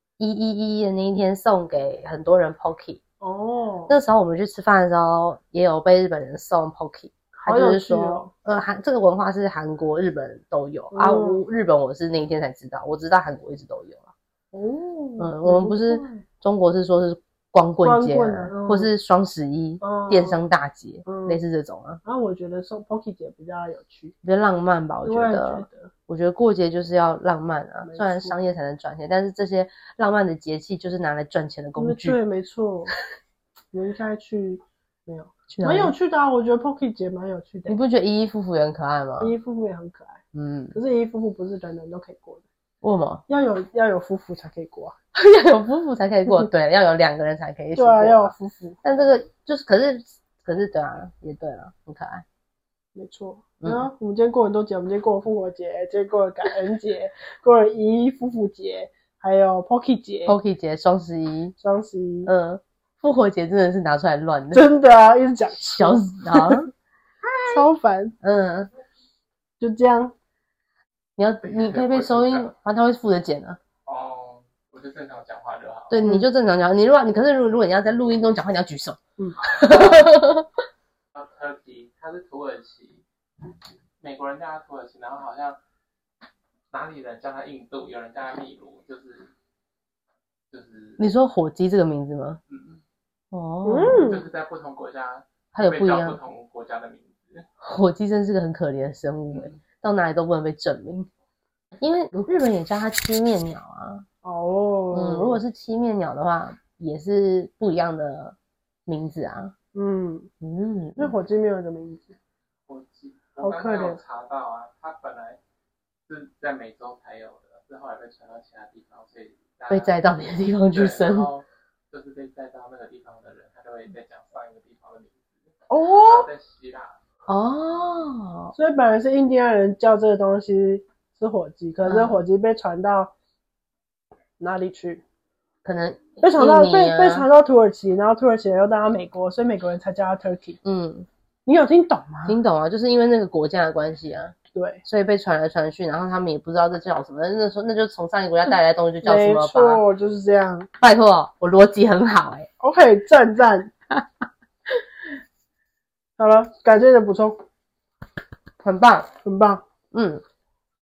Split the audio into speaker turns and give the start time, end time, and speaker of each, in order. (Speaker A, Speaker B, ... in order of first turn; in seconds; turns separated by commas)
Speaker A: 0.2-3.0, Speaker B: 3.2-4.0, Speaker A: 3.9-14.1, Speaker B: 7.3-8.3, Speaker B: 10.9-11.4, Speaker B: 14.5-16.2, Speaker A: 15.2-22.0, Speaker B: 17.8-18.9, Speaker B: 19.8-20.4, Speaker B: 21.1-21.4, Speaker B: 22.1-24.1, Speaker A: 24.2-32.2, Speaker B: 25.1-25.9, Speaker B: 27.8-28.4, Speaker B: 31.8-32.9, Speaker B: 33.7-37.8, Speaker A: 35.5-36.0, Speaker A: 37.7-39.3, Speaker B: 39.2-40.2, Speaker A: 40.3-40.8, Speaker B: 40.7-42.5, Speaker A: 42.8-43.2, Speaker B: 43.3-45.0, Speaker A: 45.1-52.2, Speaker B: 47.8-48.8, Speaker B: 53.0-60.4, Speaker A: 53.6-53.9, Speaker A: 60.3-61.5, Speaker B: 61.6-62.3, Speaker A: 62.3-64.7, Speaker B: 64.5-66.7, Speaker A: 65.7-66.7, Speaker B: 67.4-68.2, Speaker A: 68.2-68.7, Speaker B: 69.6-70.1, Speaker A: 71.2-73.6, Speaker C: 71.4-72.5, Speaker C: 73.9-76.0, Speaker A: 75.9-80.5, Speaker C: 79.6-80.1, Speaker C: 81.2-83.0, Speaker C: 84.0-85.6, Speaker C: 86.7-89.3, Speaker C: 90.5-91.0, Speaker A: 91.0-92.4, Speaker C: 92.5-92.8, Speaker A: 93.3-94.2, Speaker B: 93.6-94.2, Speaker C: 94.0-97.5, Speaker A: 95.5-96.2, Speaker A: 97.6-101.1, Speaker C: 99.3-99.6, Speaker A: 101.8-104.1, Speaker B: 104.2-105.4, Speaker A: 104.9-108.4, Speaker A: 108.9-109.5, Speaker B: 109.7-110.3, Speaker A: 110.4-111.1, Speaker B: 111.0-112.2, Speaker C: 112.7-115.4, Speaker B: 113.4-114.0, Speaker C: 116.1-127.0, Speaker A: 119.7-121.3, Speaker B: 125.7-126.3, Speaker A: 127.3-128.5, Speaker B: 128.5-133.1, Speaker A: 131.8-132.2, Speaker B: 134.4-135.0, Speaker A: 135.6-137.3, Speaker B: 136.2-140.6, Speaker A: 140.6-141.1, Speaker B: 141.5-142.4, Speaker A: 142.3-149.8, Speaker B: 144.5-144.8, Speaker B: 149.0-150.7, Speaker A: 150.8-152.5, Speaker B: 152.6-153.7, Speaker B: 156.2-157.4, Speaker A: 158.6-159.1, Speaker B: 159.2-159.6, Speaker A: 159.9-160.2